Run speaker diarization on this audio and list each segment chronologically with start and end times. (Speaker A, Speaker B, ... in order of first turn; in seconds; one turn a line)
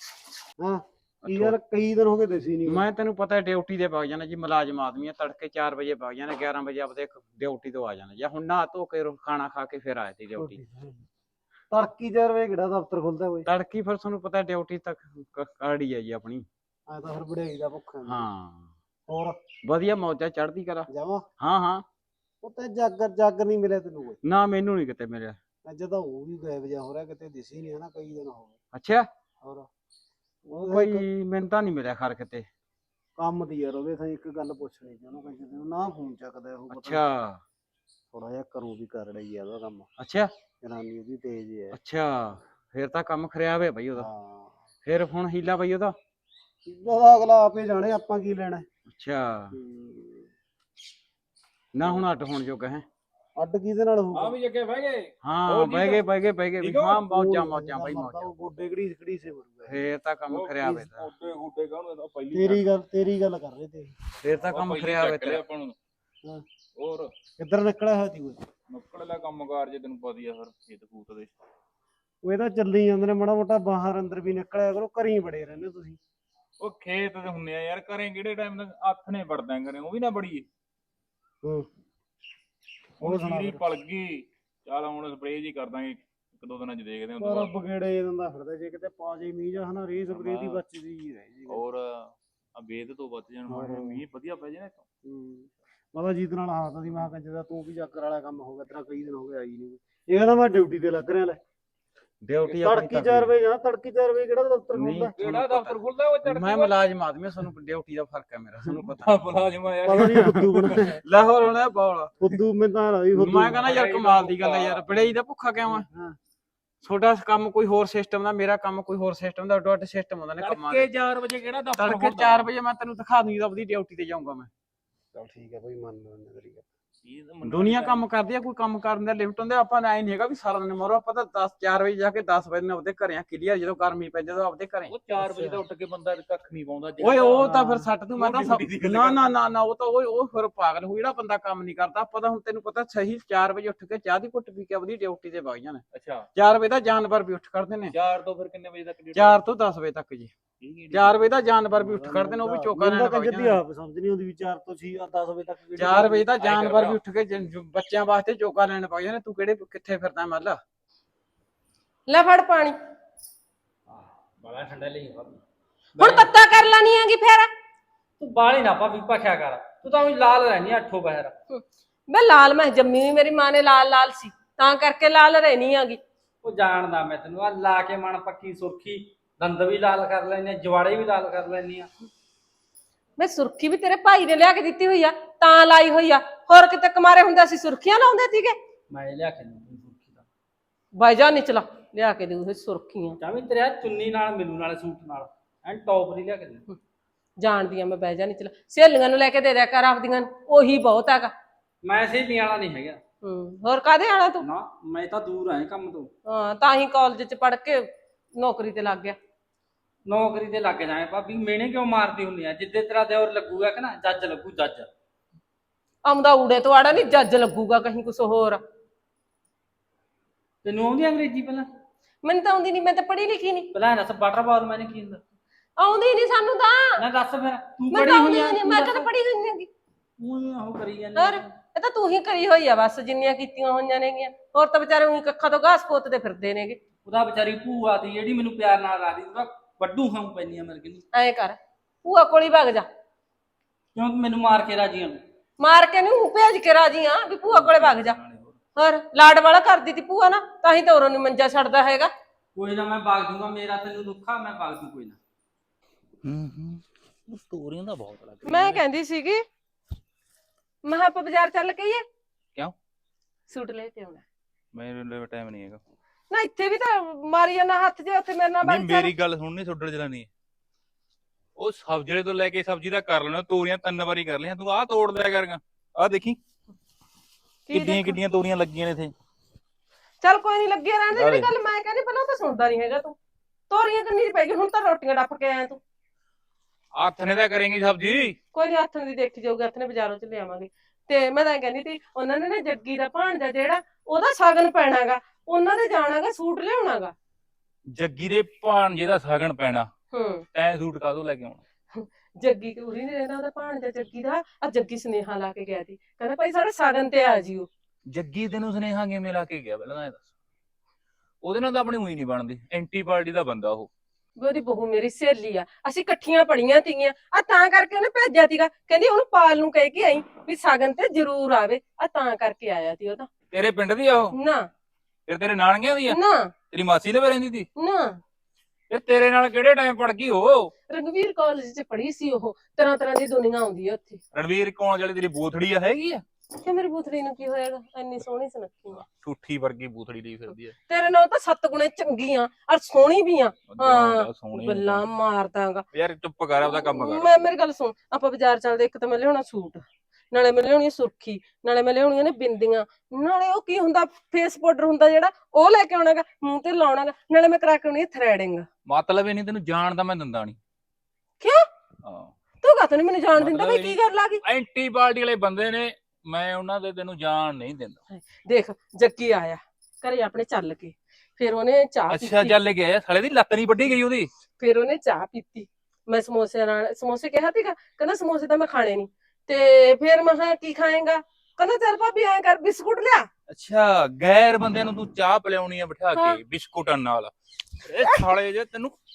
Speaker A: 0.6-2.8
Speaker B: 2.7-10.6
Speaker A: 10.4-11.1
Speaker A: 11.7-13.5
Speaker B: 13.5-16.5
Speaker A: 16.9-18.3
Speaker B: 18.1-18.7
Speaker A: 19.1-19.4
Speaker B: 19.6-20.9
Speaker A: 20.9-21.3
Speaker B: 21.4-21.8
Speaker A: 22.4-24.2
Speaker B: 24.2-25.4
Speaker A: 25.6-28.6
Speaker B: 28.7-29.1
Speaker A: 29.4-29.7
Speaker A: 30.5-31.1
Speaker B: 30.5-32.5
Speaker A: 33.2-37.0
Speaker B: 36.7-37.4
Speaker A: 38.1-39.9
Speaker B: 40.0-40.3
Speaker A: 40.6-41.8
Speaker B: 41.7-44.1
Speaker A: 43.9-44.6
Speaker B: 44.9-46.0
Speaker A: 46.6-48.7
Speaker B: 48.9-49.6
Speaker A: 49.5-50.3
Speaker B: 51.7-52.9
Speaker A: 53.4-54.4
Speaker C: 54.1-56.1
Speaker B: 55.2-58.3
Speaker C: 56.6-57.0
Speaker A: 57.0-59.9
Speaker B: 59.7-61.1
Speaker C: 60.3-62.6
Speaker A: 62.3-64.0
Speaker B: 64.2-65.4
Speaker C: 64.5-65.8
Speaker C: 66.8-67.1
Speaker A: 67.4-68.4
Speaker C: 68.7-71.3
Speaker A: 72.2-76.0
Speaker C: 76.6-80.5
Speaker A: 81.4-81.7
Speaker A: 83.0-83.6
Speaker C: 83.0-87.5
Speaker A: 87.2-91.6
Speaker C: 90.1-90.6
Speaker C: 91.5-94.8
Speaker A: 93.5-94.0
Speaker A: 95.0-101.4
Speaker B: 102.2-103.3
Speaker A: 102.5-105.2
Speaker B: 104.7-109.2
Speaker C: 105.2-106.7
Speaker C: 109.0-111.0
Speaker A: 109.9-111.0
Speaker B: 110.0-112.2
Speaker A: 112.2-113.6
Speaker B: 113.2-115.9
Speaker C: 113.5-115.1
Speaker A: 115.7-116.2
Speaker B: 116.8-120.9
Speaker C: 120.4-122.5
Speaker B: 121.8-124.5
Speaker A: 125.1-126.7
Speaker C: 127.0-128.0
Speaker B: 127.4-134.9
Speaker C: 134.9-139.3
Speaker B: 137.0-145.8
Speaker C: 145.9-146.3
Speaker B: 146.3-147.9
Speaker C: 147.9-149.4
Speaker B: 149.2-150.3
Speaker C: 150.6-151.3
Speaker B: 150.9-153.6
Speaker A: 151.7-156.3
Speaker B: 155.8-160.6
Speaker C: 156.4-157.0
Speaker D: 162.1-162.8
Speaker E: 163.9-165.4
Speaker E: 166.0-166.3
Speaker D: 166.0-167.5
Speaker E: 168.2-171.3
Speaker D: 171.5-176.0
Speaker E: 176.4-181.9
Speaker D: 183.2-188.6
Speaker E: 188.9-190.3
Speaker D: 191.0-193.2
Speaker E: 193.2-196.6
Speaker D: 197.4-201.3
Speaker E: 201.8-203.0
Speaker D: 203.2-204.4
Speaker E: 204.4-206.1
Speaker D: 206.3-209.2
Speaker E: 210.1-214.9
Speaker D: 216.1-218.6
Speaker E: 220.6-221.7
Speaker D: 222.2-223.7
Speaker E: 223.7-225.2
Speaker D: 225.8-227.0
Speaker E: 227.0-229.1
Speaker D: 227.9-229.7
Speaker E: 230.2-231.4
Speaker D: 231.2-236.8
Speaker E: 237.1-241.1
Speaker D: 241.1-242.9
Speaker E: 243.9-245.2
Speaker D: 245.6-248.2
Speaker E: 247.5-248.6
Speaker D: 248.8-252.1
Speaker E: 252.6-255.2
Speaker C: 256.2-258.8
Speaker D: 258.4-259.4
Speaker D: 260.8-262.1
Speaker D: 263.5-264.2
Speaker C: 264.7-265.8
Speaker D: 266.3-269.1
Speaker C: 268.6-270.3
Speaker C: 271.6-276.4
Speaker D: 277.7-278.2
Speaker C: 277.7-279.1
Speaker D: 280.2-283.2
Speaker C: 281.1-281.5
Speaker D: 283.7-285.8
Speaker C: 286.9-288.4
Speaker D: 288.5-297.1
Speaker C: 297.9-299.9
Speaker D: 300.1-300.5
Speaker C: 300.5-301.6
Speaker D: 301.9-307.7
Speaker C: 308.1-310.3
Speaker C: 311.4-313.9
Speaker D: 314.4-323.3
Speaker C: 323.5-324.4
Speaker D: 324.3-324.7
Speaker C: 325.3-326.2
Speaker D: 326.1-326.5
Speaker C: 326.7-327.7
Speaker D: 327.8-328.2
Speaker C: 328.9-330.7
Speaker D: 330.9-334.2
Speaker C: 334.3-336.2
Speaker D: 336.6-339.0
Speaker C: 339.0-340.8
Speaker D: 340.9-345.9
Speaker C: 343.7-345.1
Speaker C: 345.9-347.3
Speaker D: 346.6-358.7
Speaker C: 358.9-360.6
Speaker D: 361.4-361.7
Speaker C: 362.0-362.3
Speaker D: 362.6-364.4
Speaker C: 363.4-368.0
Speaker D: 368.1-372.6
Speaker C: 372.1-374.3
Speaker D: 374.6-383.3
Speaker C: 383.5-387.3
Speaker D: 386.1-386.4
Speaker C: 387.8-388.9
Speaker D: 388.0-388.3